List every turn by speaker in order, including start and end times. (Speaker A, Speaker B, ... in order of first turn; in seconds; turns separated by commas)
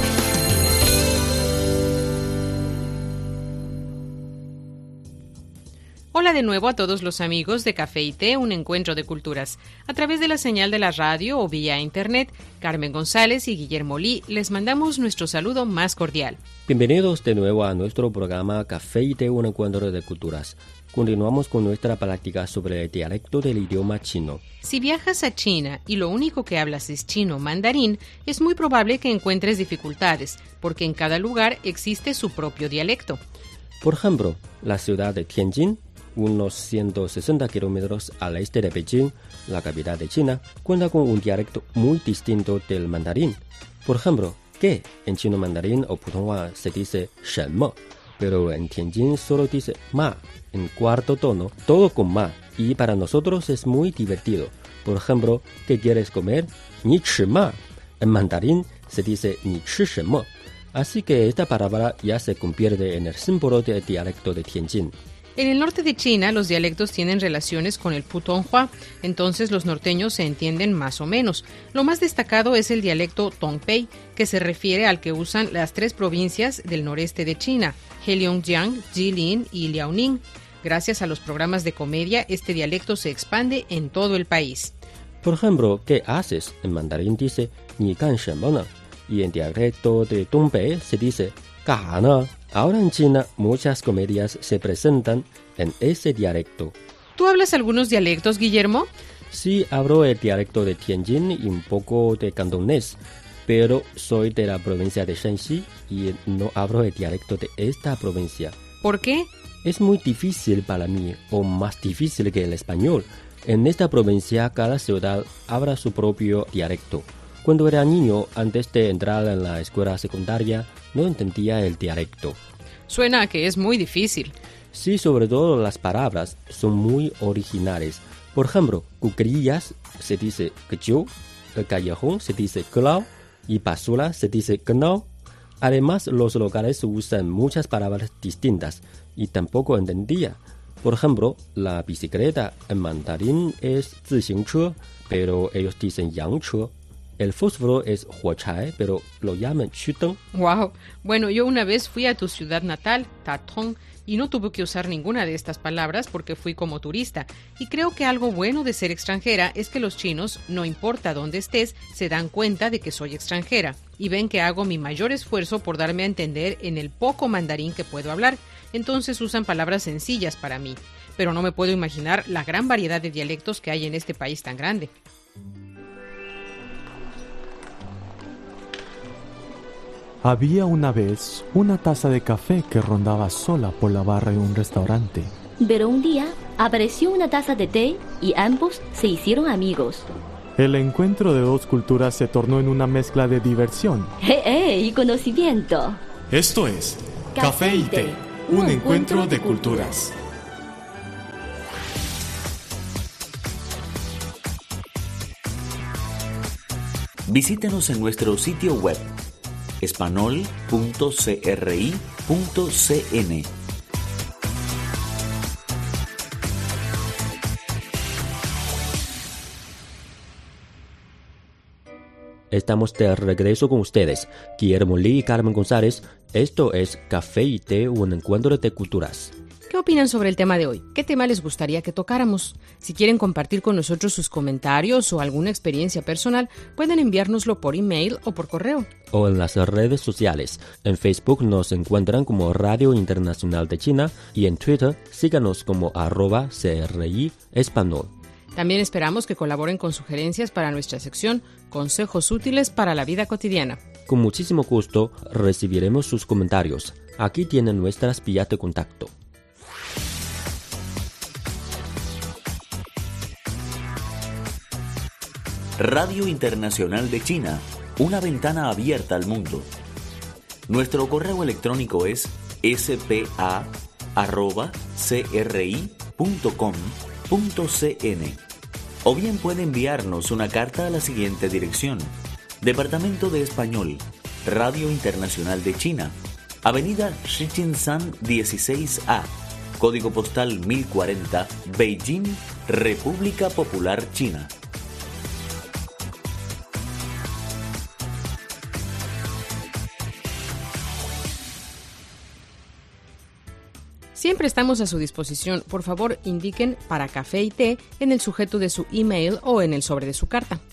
Speaker A: 6.1-16.4, Speaker B: 16.7-24.4, Speaker A: 24.6-33.2, Speaker B: 33.8-65.0, Speaker A: 65.4-84.7, Speaker B: 85.2-96.8, Speaker A: 97.2-98.9, Speaker B: 99.3-108.5, Speaker A: 108.8-109.3, Speaker B: 109.6-122.4, Speaker A: 122.9-124.3, Speaker B: 124.7-135.1, Speaker B: 135.6-150.2, Speaker A: 150.3-174.9, Speaker C: 180.2-185.3, Speaker D: 185.6-190.2, Speaker C: 190.6-194.1, Speaker D: 194.2-196.0, Speaker C: 196.3-200.1, Speaker D: 197.3-200.0, Speaker E: 207.3-209.1, Speaker E: 209.8-213.5, Speaker B: 222.5-229.3, Speaker A: 229.7-238.9, Speaker B: 239.1-248.1, Speaker A: 248.6-253.8, Speaker B: 254.1-259.1, Speaker E: 265.8-269.7, Speaker E: 270.7-278.4, Speaker E: 279.0-294.5, Speaker A: 304.1-310.6